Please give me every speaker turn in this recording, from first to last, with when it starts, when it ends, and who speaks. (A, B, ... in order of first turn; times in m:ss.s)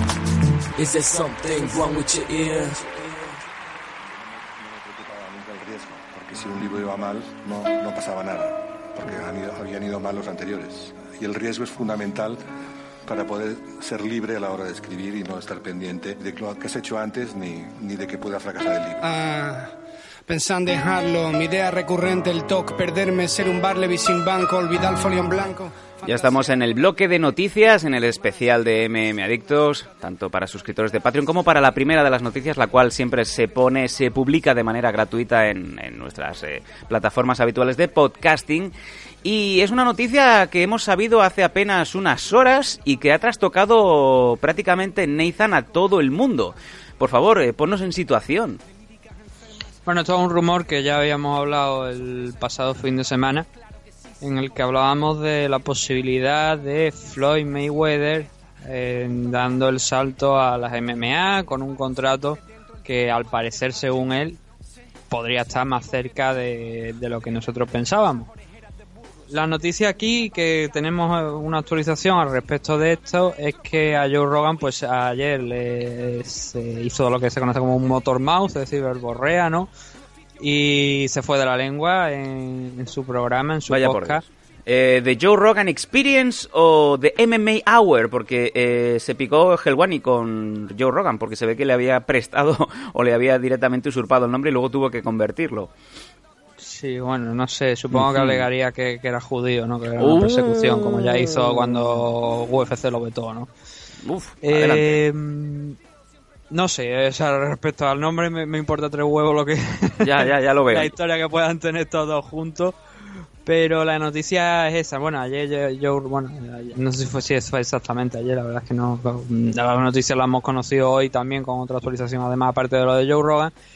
0:00.8-0:02.9 A
0:04.2-0:12.4 B
0:13.0-0:19.1 B
0:19.3-0:19.7 C
0:20.3-0:25.5 C
0:26.0-0:48.6 D
0:49.8-0:53.5 E
0:54.2-1:04.4 E
1:05.1-1:08.3 E
1:09.3-1:19.7 E
1:20.4-1:24.2 E
1:23.7-1:35.7 D
1:36.6-1:43.5 E
1:37.9-1:38.4 D
1:40.0-1:41.6 D
1:44.0-1:45.0 D
1:44.4-1:45.8 E
1:46.5-1:52.8 E
1:50.0-1:50.9 D
1:53.4-2:03.5 E